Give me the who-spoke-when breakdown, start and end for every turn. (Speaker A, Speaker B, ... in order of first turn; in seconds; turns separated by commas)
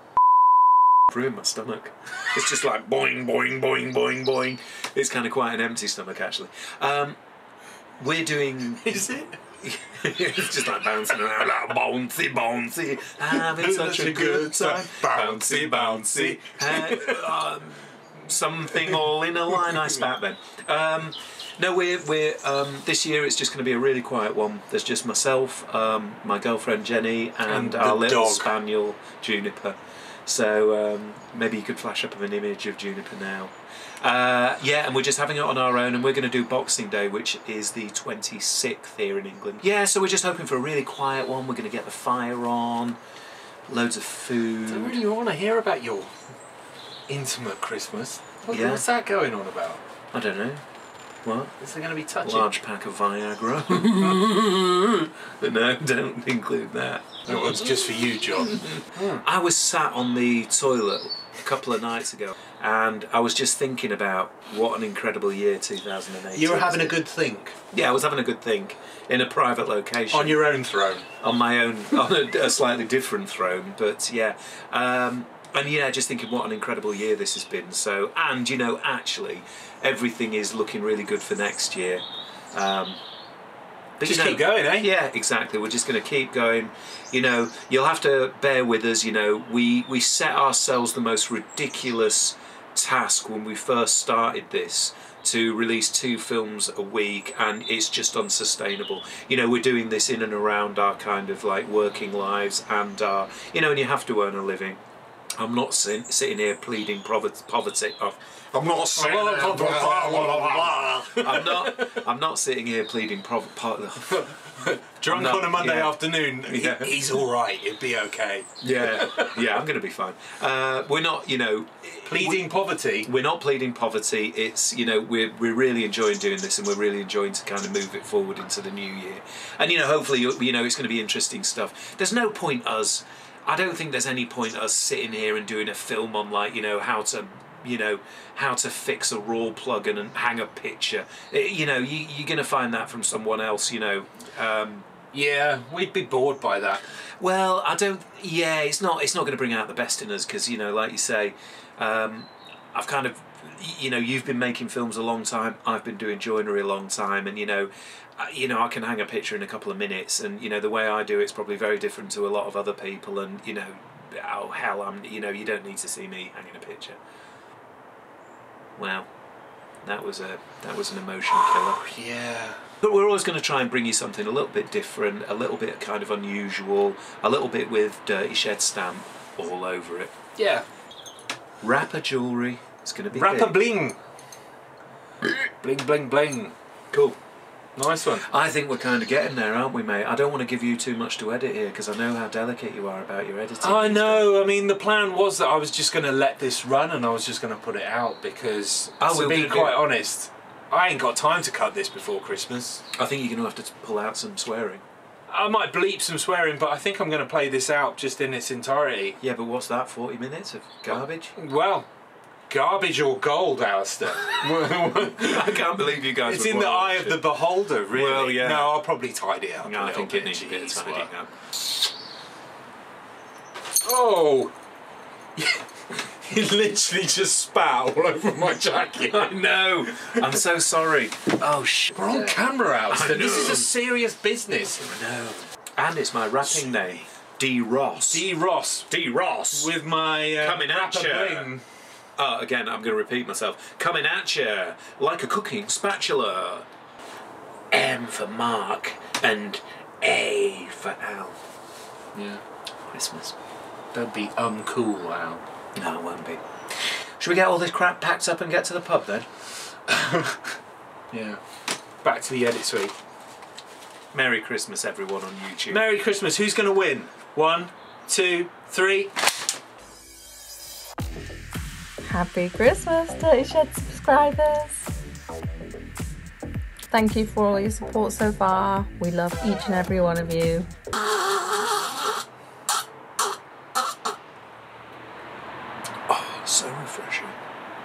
Speaker A: 1.1-7.2, Speaker A: 8.0-43.0, Speaker B: 8.8-9.3, Speaker B: 13.3-17.3, Speaker B: 18.7-19.0, Speaker B: 27.5-28.5, Speaker A: 43.7-45.0, Speaker B: 44.7-46.1, Speaker B: 47.1-49.8, Speaker A: 48.5-48.8, Speaker A: 50.1-50.6, Speaker A: 51.2-51.5, Speaker B: 51.6-52.5, Speaker A: 52.2-57.6, Speaker B: 57.2-59.2, Speaker A: 58.5-67.0, Speaker B: 66.3-67.5, Speaker A: 67.7-70.6, Speaker B: 70.1-71.1, Speaker A: 71.2-83.0, Speaker A: 84.0-104.8, Speaker B: 84.0-84.9, Speaker A: 105.4-114.4, Speaker B: 108.8-112.0, Speaker B: 114.0-119.5, Speaker A: 115.1-117.1, Speaker A: 118.6-122.5, Speaker B: 122.0-123.1, Speaker A: 123.0-144.9, Speaker B: 145.1-146.8, Speaker A: 147.2-167.0, Speaker A: 168.8-169.1, Speaker A: 169.8-171.9, Speaker B: 171.8-172.6, Speaker A: 172.8-180.1, Speaker B: 180.4-180.6, Speaker A: 181.6-183.6, Speaker B: 183.1-184.0, Speaker B: 185.6-186.5, Speaker B: 187.8-188.2, Speaker A: 188.2-194.3, Speaker B: 193.6-202.8, Speaker A: 199.0-199.8, Speaker A: 202.9-204.8, Speaker B: 205.3-209.2, Speaker A: 209.2-211.3, Speaker B: 210.9-211.9, Speaker B: 212.5-215.7, Speaker A: 215.0-218.8, Speaker B: 216.2-221.1, Speaker A: 219.6-221.3, Speaker B: 223.8-224.5, Speaker B: 225.3-229.4, Speaker A: 229.1-233.8, Speaker B: 229.9-230.2, Speaker B: 231.9-234.9, Speaker A: 234.8-238.3, Speaker B: 238.1-238.9, Speaker A: 238.9-239.7, Speaker B: 239.5-241.6, Speaker A: 240.3-241.5, Speaker A: 242.2-246.7, Speaker A: 247.7-251.4, Speaker B: 252.1-252.4, Speaker A: 252.9-253.3, Speaker B: 253.9-255.4, Speaker A: 255.7-259.3, Speaker B: 259.9-260.6, Speaker B: 261.1-261.4, Speaker B: 262.0-262.9, Speaker A: 264.1-265.8, Speaker B: 265.7-269.1, Speaker C: 272.1-274.9, Speaker C: 276.9-280.7, Speaker A: 286.1-287.4